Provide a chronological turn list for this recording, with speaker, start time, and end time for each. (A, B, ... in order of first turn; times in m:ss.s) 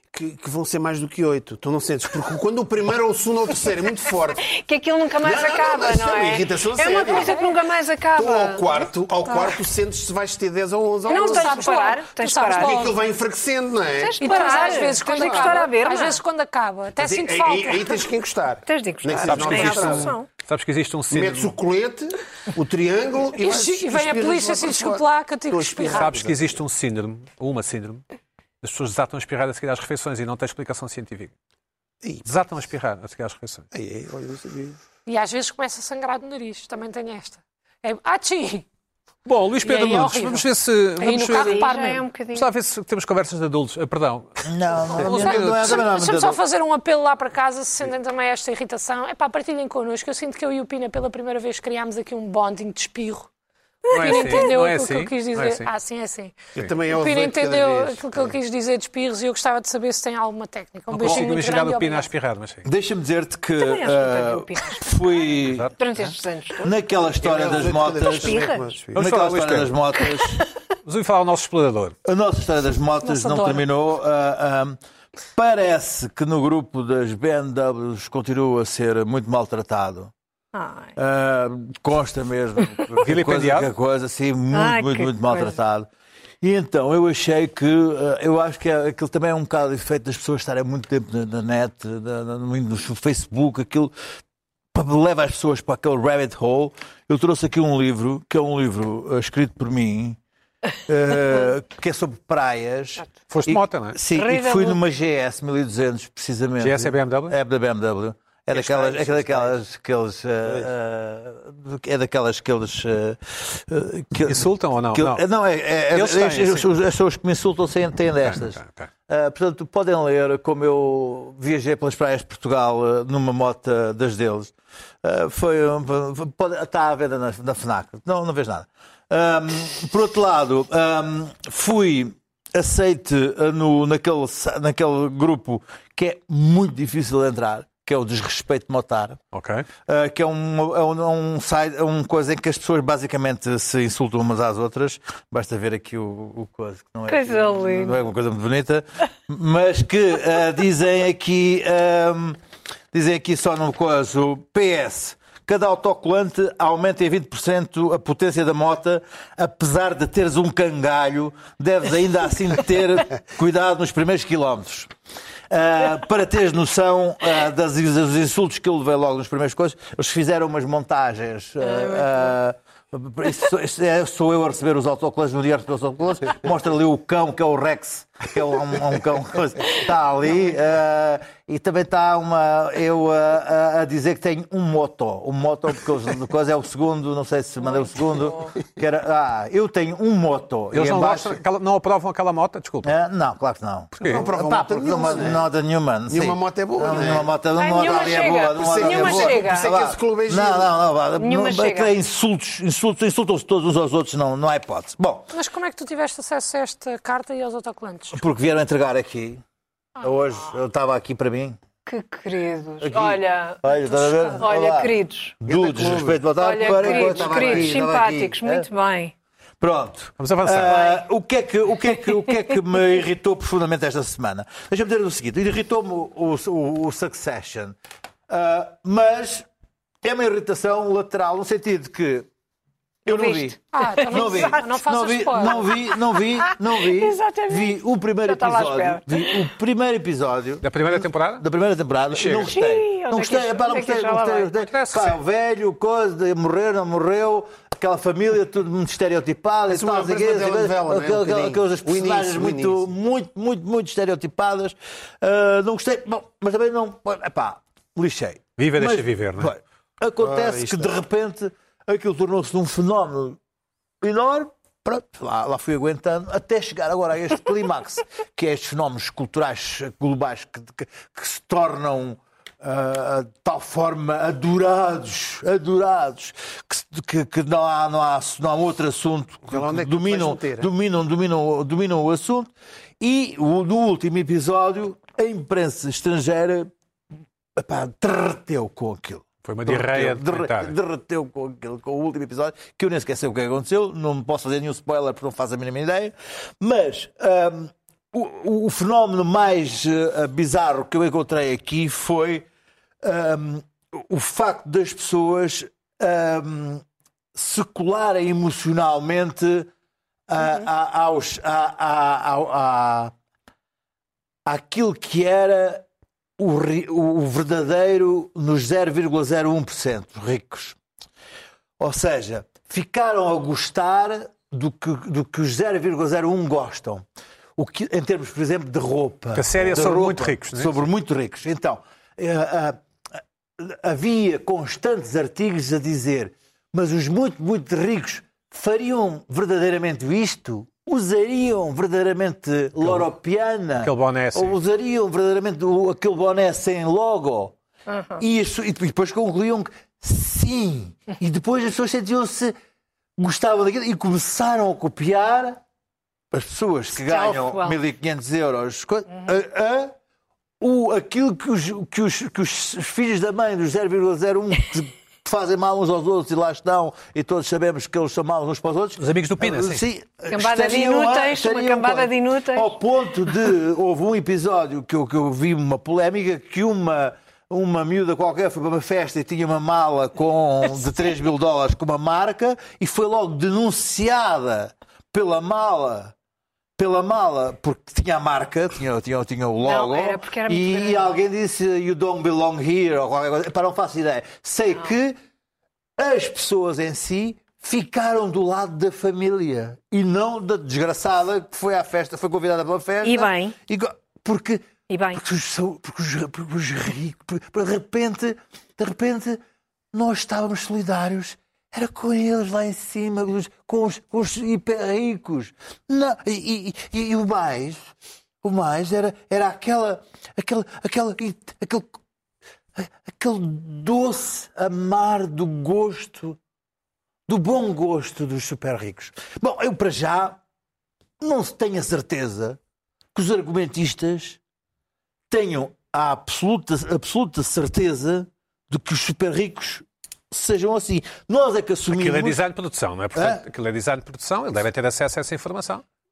0:00.1-0:04.5 A
0:04.4-0:08.7 B
0:05.1-0:07.4 A
0:07.1-0:07.5 C
0:08.2-0:11.8 A
0:09.2-0:09.6 C
0:11.1-0:12.9 B
0:11.1-0:13.0 C
0:12.5-0:15.7 A
0:14.0-0:16.2 B
0:14.2-0:18.1 C
0:17.0-0:20.2 A
0:18.7-0:20.3 B
0:19.2-0:21.6 D
0:21.1-0:26.6 A
0:23.4-0:26.2 C
0:25.9-0:28.0 D
0:28.6-0:31.3 D
0:32.2-0:33.7 D
0:33.7-0:34.8 A
0:35.1-0:38.7 C
0:39.3-0:41.7 D
0:39.6-0:42.1 C
0:41.3-0:42.5 B
0:42.3-0:45.8 D
0:44.4-0:46.4 E
0:45.1-0:53.3 C
0:53.8-0:54.5 B
0:53.9-1:02.1 C
0:53.9-0:55.7 D
0:56.6-0:58.4 A
1:00.9-1:02.7 D
1:02.6-1:05.7 E
1:03.6-1:04.9 B
1:05.4-1:06.1 D
1:05.8-1:06.8 B
1:06.6-1:10.5 E
1:07.2-1:09.0 A
1:08.0-1:08.6 B
1:08.9-1:09.8 D
1:10.8-1:12.0 D
1:12.0-1:14.8 E
1:13.0-1:13.7 C
1:15.3-1:20.1 E
1:20.5-1:20.9 B
1:21.0-1:25.9 E
1:23.0-1:23.7 D
1:24.5-1:25.6 B
1:26.4-1:33.9 E
1:34.7-1:40.2 E
1:40.9-2:19.2 E
1:43.3-1:44.0 D
1:44.1-1:44.8 B
1:46.6-1:47.4 D
1:48.5-1:49.6 A
1:54.2-1:55.2 D
1:55.9-1:56.7 D
1:58.2-1:58.9 D
2:19.3-2:19.7 D
2:19.9-2:32.4 E
2:27.1-2:28.0 B
2:32.9-2:44.9 E
2:45.5-3:11.4 E
2:51.6-2:52.3 B
3:07.6-3:08.5 B
3:10.7-3:13.0 D
3:12.8-3:25.3 E
3:13.9-3:14.2 D
3:14.0-3:15.5 A
3:16.1-3:17.4 A
3:17.6-3:19.7 B
3:17.8-3:18.2 C
3:18.0-3:20.7 A
3:21.2-3:21.9 B
3:25.3-3:28.2 C
3:28.1-3:29.4 E
3:30.0-3:31.6 E
3:31.8-3:33.6 B
3:32.8-3:38.7 E
3:34.0-3:34.4 C
3:34.4-3:35.4 B
3:35.4-3:37.8 A
3:36.3-3:39.1 B
3:39.6-3:47.8 E
3:40.2-3:41.0 D
3:48.3-3:49.5 E
3:50.0-3:52.3 E
3:53.1-3:54.6 B
3:53.1-4:23.4 E
3:53.7-3:55.8 C
3:55.9-3:59.4 B
4:00.6-4:01.4 D
4:02.1-4:02.5 D
4:02.4-4:04.6 B
4:04.7-4:05.2 D
4:09.7-4:12.8 A
4:18.6-4:19.6 D
4:20.2-4:21.0 A
4:24.0-4:46.7 E
4:39.5-4:40.7 A
4:47.6-5:02.5 E
4:49.4-4:50.8 D
5:03.0-5:06.8 E
5:07.4-5:09.7 E
5:10.3-5:13.1 E
5:14.5-5:15.9 E
5:16.4-5:20.8 E
5:21.8-5:27.0 E
5:27.6-5:32.8 E
5:29.4-5:30.9 D
5:33.6-5:47.6 E
5:42.8-5:43.1 D
5:43.8-5:44.6 D
5:47.9-5:48.2 B
5:48.2-5:52.6 E
5:53.2-5:55.6 E
5:56.3-6:00.0 E
5:57.0-5:57.8 B
6:00.6-6:26.1 E
6:09.0-6:09.8 D
6:10.3-6:12.7 B
6:26.8-6:35.2 E
6:29.6-6:31.1 B
6:36.0-6:49.4 E
6:43.0-6:43.6 B
6:44.9-6:45.2 B
6:49.9-7:02.0 E
7:02.8-7:06.4 E
7:07.3-7:10.4 E
7:11.2-7:12.6 E
7:13.1-7:14.4 E
7:15.3-7:22.4 E
7:21.9-7:25.8 D
7:23.1-7:23.4 E